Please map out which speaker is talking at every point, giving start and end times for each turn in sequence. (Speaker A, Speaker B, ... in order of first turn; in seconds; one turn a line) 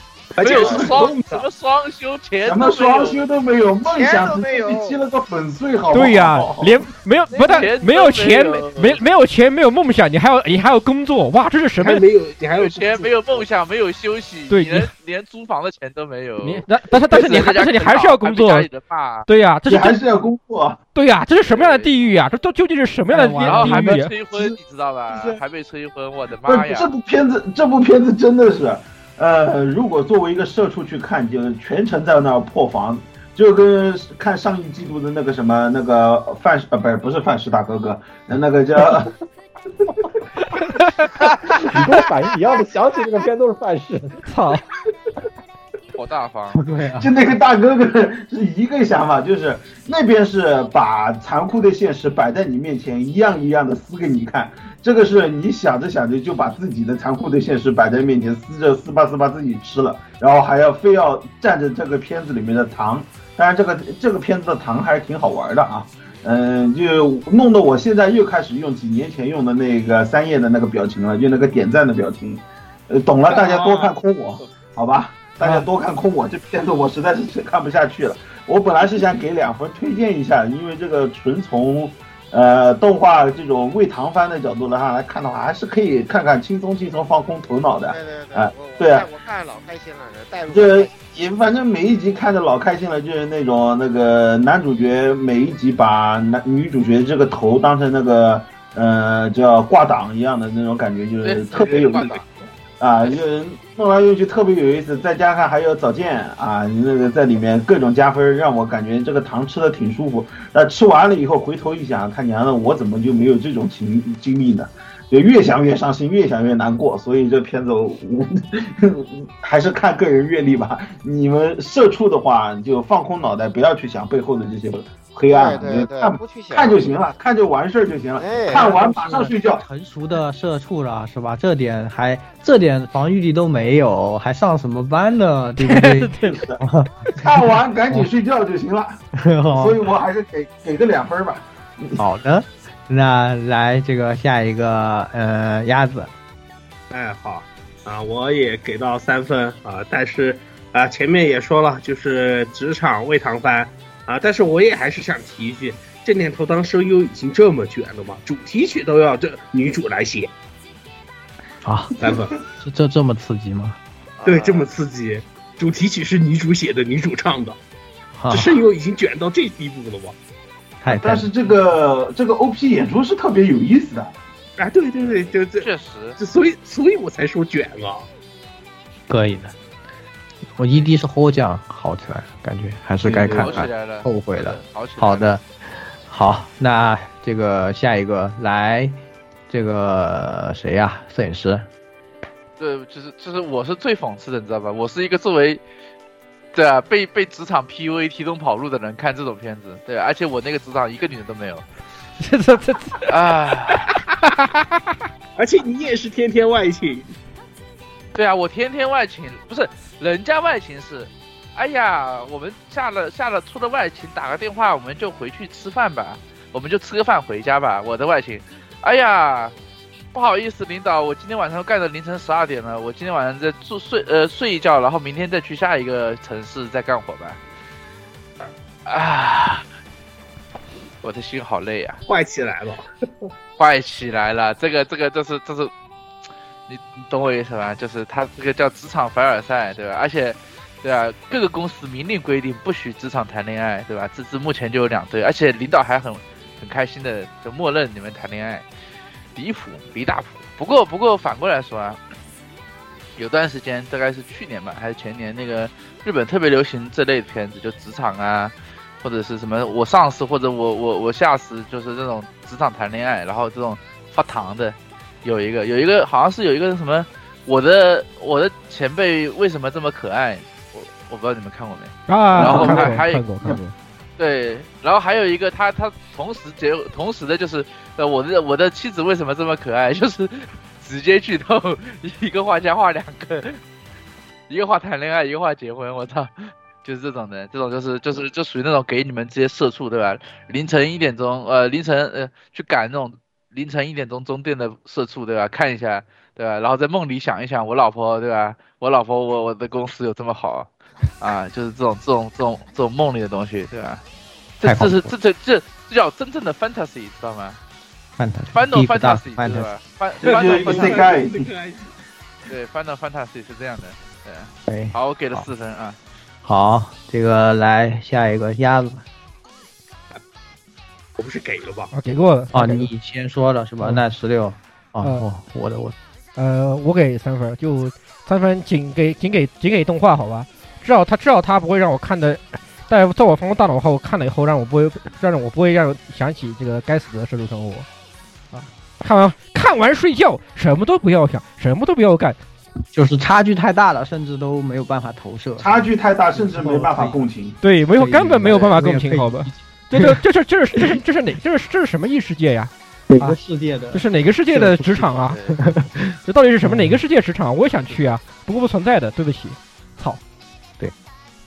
Speaker A: 0.3-1.5
Speaker B: 0.4-3.2
Speaker C: 0.5-0.8
Speaker D: 0.5-0.9
Speaker D: 2.4-6.8
Speaker C: 3.9-5.0
Speaker E: 5.9-12.1
Speaker B: 7.4-9.0
Speaker A: 11.8-13.5
Speaker B: 12.5-19.3
Speaker E: 14.5-14.9
Speaker E: 16.4-18.7
Speaker E: 19.3-20.0
Speaker D: 19.7-20.8
Speaker E: 20.9-24.1
Speaker B: 21.5-21.9
Speaker F: 23.1-24.0
Speaker B: 23.4-26.9
Speaker F: 25.1-25.4
Speaker D: 26.5-39.1
Speaker G: 41.5-44.2
Speaker E: 44.3-44.6
Speaker B: 46.0-46.6
Speaker F: 46.5-47.1
Speaker D: 47.0-89.1
Speaker A: 73.3-74.5
Speaker F: 75.4-75.7
Speaker C: 87.9-91.2
Speaker D: 90.5-102.2
Speaker B: 101.2-102.3
Speaker D: 102.8-129.6
Speaker C: 125.3-127.0
Speaker C: 128.2-128.7
Speaker F: 128.5-137.2
Speaker E: 135.6-136.3
Speaker D: 136.1-139.0
Speaker F: 139.1-139.8
Speaker D: 139.5-142.0
Speaker F: 142.0-146.1
Speaker A: 146.9-160.3
Speaker F: 161.6-161.9
Speaker A: 162.0-162.4
Speaker F: 162.6-163.8
Speaker C: 164.2-164.7
Speaker A: 164.2-167.6
Speaker F: 168.2-168.6
Speaker A: 168.3-170.2
Speaker F: 170.8-171.3
Speaker D: 170.9-174.2
Speaker A: 174.6-178.1
Speaker B: 175.6-176.2
Speaker F: 179.1-179.6
Speaker F: 180.6-185.4
Speaker B: 183.1-185.3
Speaker A: 183.1-183.7
Speaker F: 186.1-191.7
Speaker B: 192.6-195.6
Speaker B: 196.5-201.7
Speaker E: 202.2-203.0
Speaker B: 203.1-203.9
Speaker A: 205.4-207.1
Speaker B: 208.1-219.6
Speaker B: 220.1-227.4
Speaker B: 228.9-229.7
Speaker B: 231.0-232.0
Speaker A: 232.1-232.9
Speaker B: 233.6-235.7
Speaker B: 236.7-248.7
Speaker B: 249.3-252.0
Speaker B: 253.2-273.3
Speaker E: 272.1-273.7
Speaker F: 272.4-273.0
Speaker B: 274.2-283.6
Speaker B: 284.5-300.7
Speaker B: 301.2-304.0
Speaker B: 304.6-307.6
Speaker F: 304.6-305.1
Speaker F: 308.2-309.7
Speaker B: 308.5-311.1
Speaker D: 310.2-311.5
Speaker A: 310.2-311.9
Speaker B: 312.5-316.0
Speaker F: 314.7-315.5
Speaker F: 316.4-319.0
Speaker A: 321.2-321.9
Speaker E: 321.9-322.9
Speaker F: 322.5-326.0
Speaker E: 326.4-337.9
Speaker E: 338.5-342.4
Speaker F: 342.9-347.2
Speaker D: 345.6-347.6
Speaker E: 347.6-353.4
Speaker F: 348.0-350.2
Speaker F: 353.1-357.0
Speaker E: 353.9-355.4
Speaker C: 355.2-355.6
Speaker E: 356.2-360.2